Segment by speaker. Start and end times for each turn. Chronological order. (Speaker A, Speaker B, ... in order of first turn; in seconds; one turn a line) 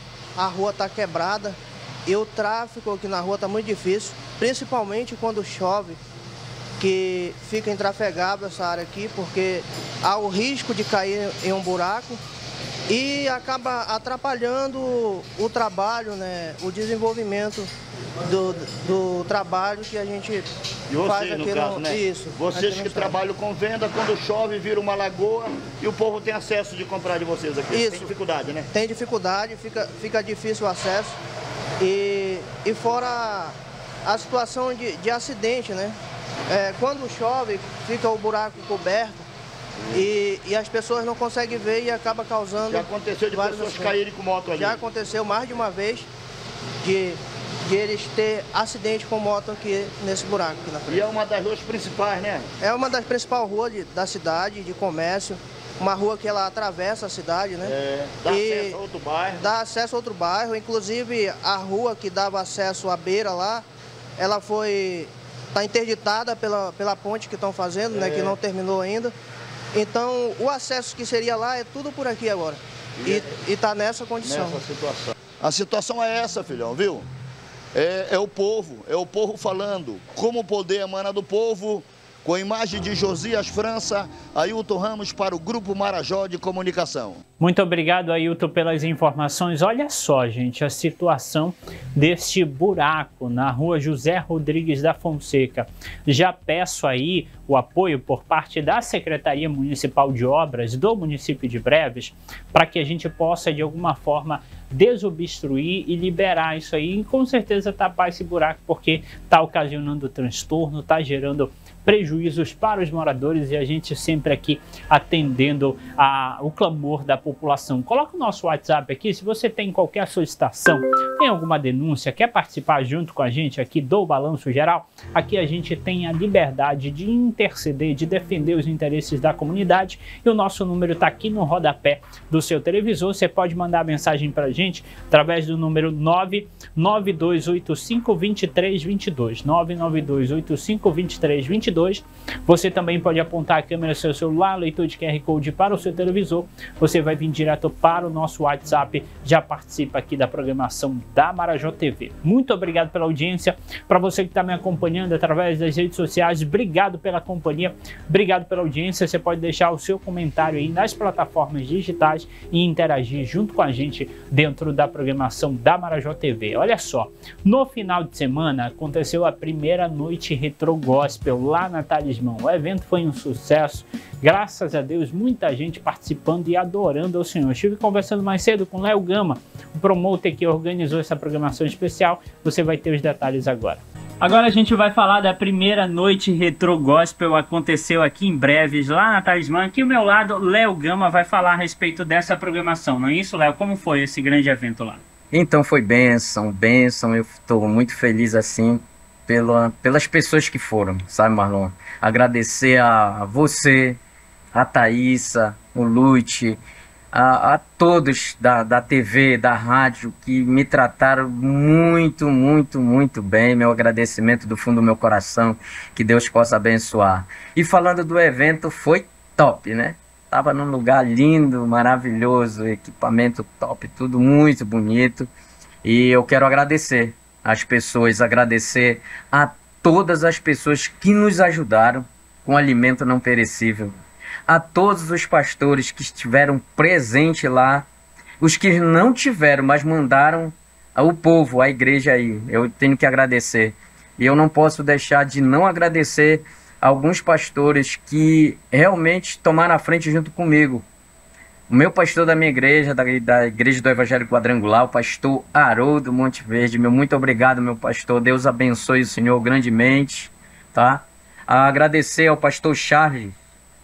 Speaker A: 0.3-6.0
Speaker A: 6.8-12.2
Speaker A: 12.9-17.7
Speaker A: 18.2-20.5
Speaker B: 20.9-28.7
Speaker A: 21.0-23.2
Speaker A: 27.7-28.1
Speaker A: 28.7-31.1
Speaker A: 31.8-36.0
Speaker A: 36.5-39.2
Speaker A: 39.9-46.1
Speaker B: 42.6-44.8
Speaker A: 46.8-51.1
Speaker B: 50.9-52.5
Speaker A: 52.6-63.6
Speaker B: 57.6-59.5
Speaker A: 64.2-69.1
Speaker B: 67.9-68.4
Speaker A: 69.7-74.6
Speaker B: 73.0-73.3
Speaker B: 74.2-77.1
Speaker B: 77.7-87.2
Speaker C: 87.4-195.0
Speaker D: 195.3-204.0
Speaker D: 204.5-206.6
Speaker D: 207.1-225.3
Speaker D: 225.8-237.9
Speaker D: 238.4-250.8
Speaker D: 251.7-263.3